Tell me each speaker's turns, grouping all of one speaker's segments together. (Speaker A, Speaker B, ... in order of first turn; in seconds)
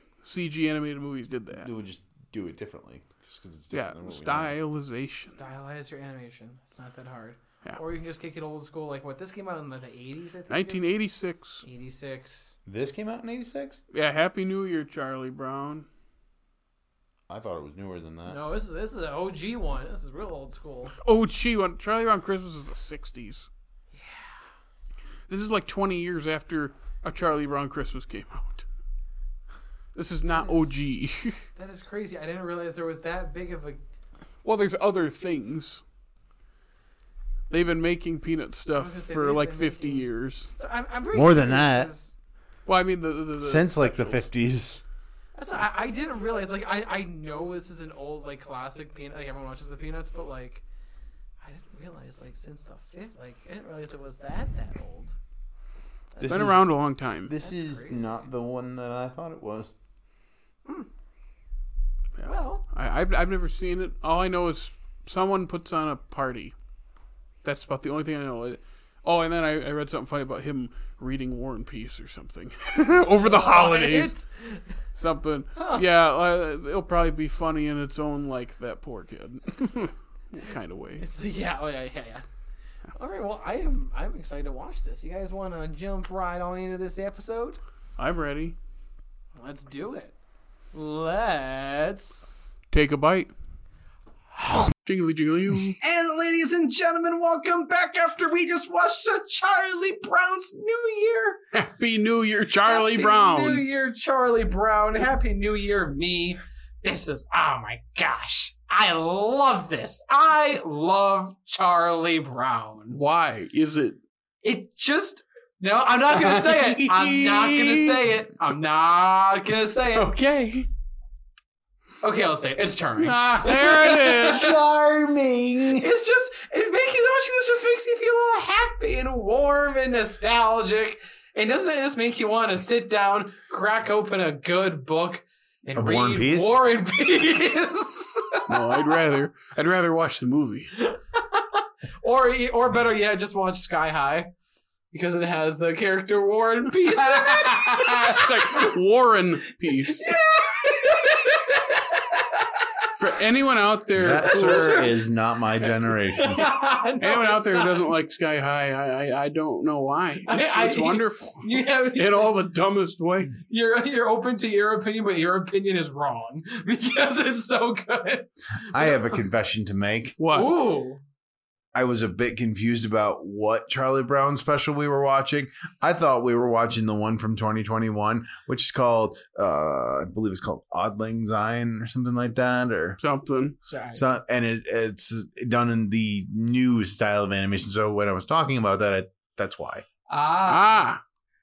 Speaker A: 0.2-1.7, 3.7-5.3, 10.5-11.6, 13.9-15.8, 21.0-23.5, 25.3-28.6, 29.9-31.4, 34.4-35.8, 37.5-40.5, 42.6-44.3, 56.2-57.3, 62.2-66.5, 67.4-74.1, 74.9-81.0, 88.0-88.5, 92.7-93.3, 94.8-95.8, 101.5-103.7, 112.9-114.0, 116.1-118.0, 120.0-120.7, 123.0-124.5, 138.5-140.7, 146.8-150.1, 152.9-154.8, 157.0-163.4, 170.2-170.5, 183.0-183.6, 190.4-191.0
Speaker B: 1.5-4.6, 12.6-13.8, 17.3-18.4, 41.1-41.9, 43.4-44.8, 56.2-56.7, 57.2-59.7, 124.2-125.9, 135.8-136.6, 153.9-156.4, 168.7-170.2, 171.7-183.0, 183.9-189.8
Speaker C: 5.2-10.9, 11.6-12.6, 18.2-20.9, 23.9-24.3, 30.2-30.8, 31.5-33.8, 38.7-42.1, 45.3-50.6, 51.4-55.1, 56.1-56.5, 57.4-58.2, 62.2-62.6, 73.2-74.8, 75.5-75.8, 81.0-82.2, 82.9-87.6, 89.3-90.1, 90.7-92.3, 95.8-101.4, 102.6-113.0, 114.4-120.1, 122.0-124.5, 125.7-138.4, 140.8-144.3, 144.9-148.7, 149.9-152.6, 154.2-155.0, 156.2-157.9, 160.2-162.3, 163.5-169.2, 170.3-171.0, 183.7-184.0, 190.1-190.8